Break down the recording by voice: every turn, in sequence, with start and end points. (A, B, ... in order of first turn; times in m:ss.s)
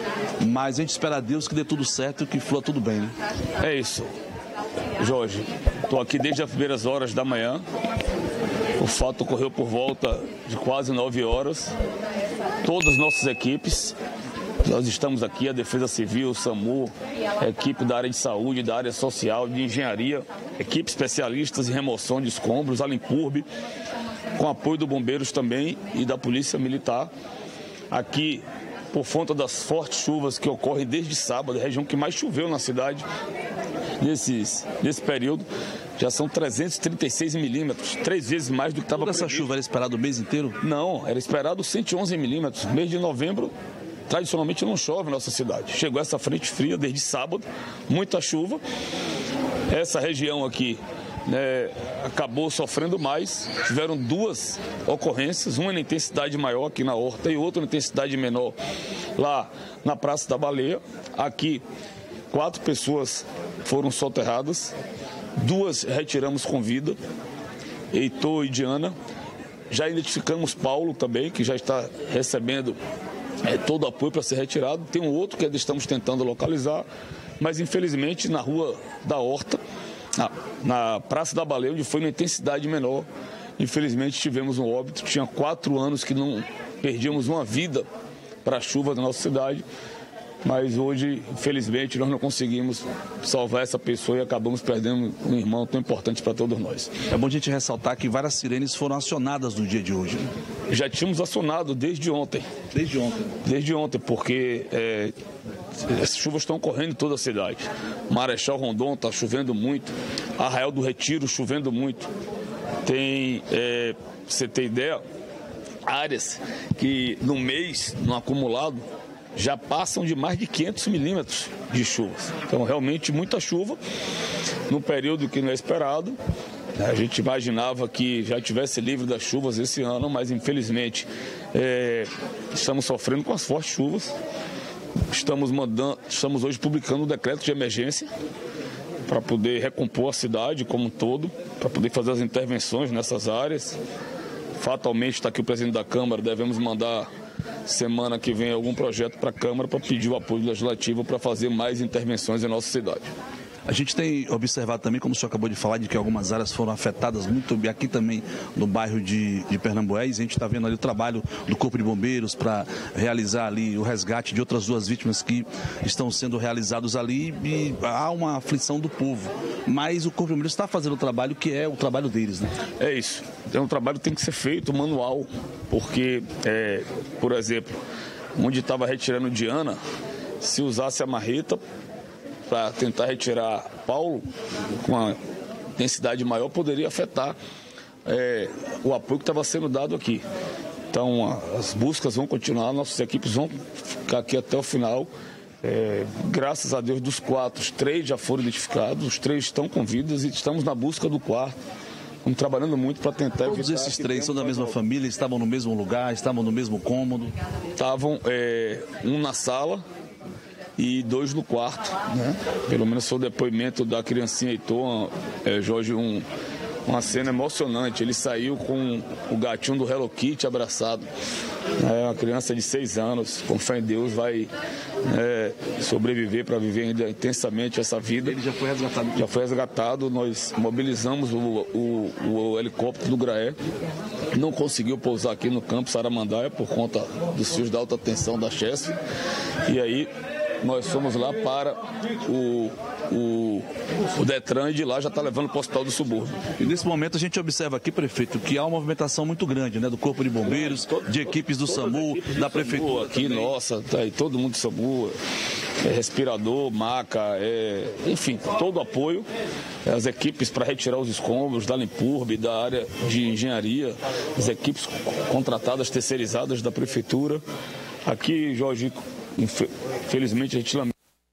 0:00.4-0:03.1 A
0:03.6-0:04.1 B
0:05.0-0:07.6 B
0:08.8-0:11.7 B
0:12.6-0:14.0 B
0:14.6-0:23.4 B
0:24.3-0:27.1 B
0:27.9-0:33.1 B
0:34.0-0:39.5 B
0:38.9-0:40.6 A
0:40.6-0:43.5 B
0:44.1-0:48.6 B
0:49.7-0:58.6 B
0:59.2-1:01.6 B
1:02.3-1:04.8 B
1:05.4-1:07.0 B
1:07.9-1:08.9 B
1:09.7-1:12.8 B
1:13.4-1:16.8 B
1:17.4-1:19.6 B
1:20.1-1:23.1 B
1:23.6-1:27.8 B
1:28.4-1:29.6 B
1:30.4-1:36.9 B
1:37.1-1:40.3 A
1:40.7-1:42.5 B
1:42.7-1:43.3 A
1:43.4-1:45.1 B
1:45.8-1:52.1 B
1:52.8-1:55.0 B
1:55.9-1:58.8 B
1:59.3-2:03.8 B
2:04.7-2:06.2 B
2:06.8-2:14.1 B
2:15.1-2:18.1 B
2:19.1-2:23.8 B
2:24.6-2:27.1 B
2:27.6-2:33.1 B
2:33.7-2:52.5 A
2:52.8-2:57.8 B
2:58.4-2:59.8 B
3:00.4-3:01.6 B
3:02.5-3:04.2 B
3:04.8-3:05.2 B
3:05.8-3:07.4 B
3:08.0-3:10.2 B
3:10.9-3:15.1 B
3:15.6-3:21.6 B
3:22.2-3:24.8 B
3:23.4-3:27.3 A
3:27.8-3:29.8 B
3:30.8-3:36.2 B
3:36.8-3:41.1 B
3:41.8-3:44.5 B
3:45.0-3:48.4 B
3:48.2-3:49.2 A
3:49.1-3:53.6 B
3:54.3-3:59.0 B
3:59.6-4:00.1 B
4:00.6-4:06.4 B
4:06.6-4:13.4 A
4:10.4-4:15.1 B
4:15.8-4:19.2 B
4:19.8-4:27.4 B
4:28.0-4:30.9 B